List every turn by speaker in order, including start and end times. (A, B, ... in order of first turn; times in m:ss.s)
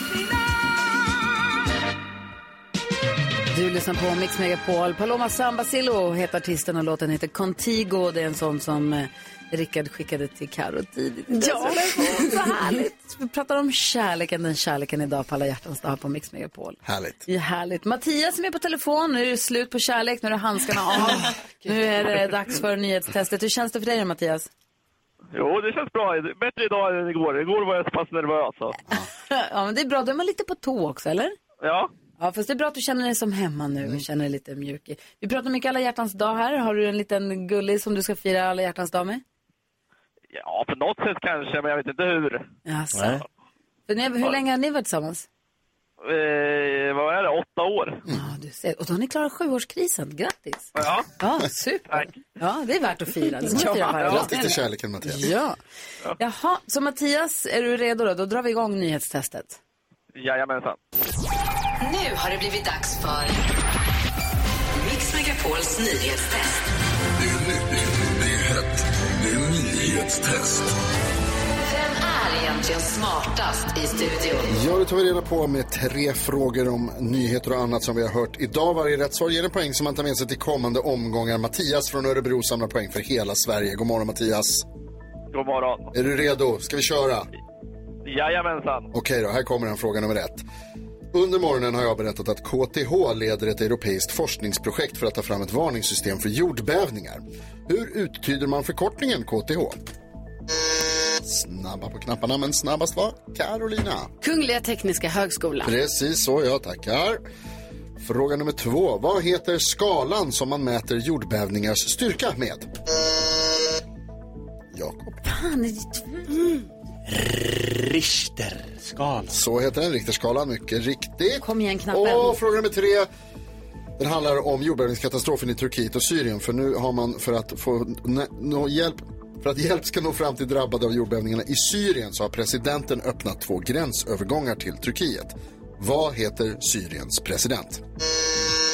0:03.5-0:24.5 A
0:11.3-0:12.6 B
0:16.8-0:17.2 C
0:25.4-0:28.8 D
0:29.2-0:31.4 A
0:31.6-0:31.9 D
0:32.2-0:39.2 A
0:40.3-0:42.5 D
0:42.7-0:43.2 A
0:43.0-0:43.2 E
0:43.9-0:45.3 A
0:46.0-0:48.0 D
0:48.1-0:54.4 A
0:50.8-0:51.1 D
0:51.9-0:52.1 D
0:53.6-0:54.4 B
0:54.0-0:55.2 C
0:55.0-0:55.6 A
0:56.2-0:59.6 A
1:00.2-1:00.8 D
1:01.8-1:03.4 F
1:04.8-1:06.6 F
1:07.2-1:10.8 G
1:11.7-1:14.5 F
1:14.5-1:24.6 C
1:25.3-1:25.9 D
1:25.9-1:27.3 C
1:28.1-1:28.9 D
1:28.9-1:30.4 C
1:31.1-1:39.8 C
1:41.2-1:44.1 C
1:44.2-1:45.7 B
1:45.6-1:47.2 C
1:48.0-1:52.7 C
1:54.7-1:55.2 C
1:55.2-1:56.3 A
1:57.1-1:59.3 E
1:59.3-2:03.1 C
2:01.4-2:02.4 A
2:04.0-2:17.8 C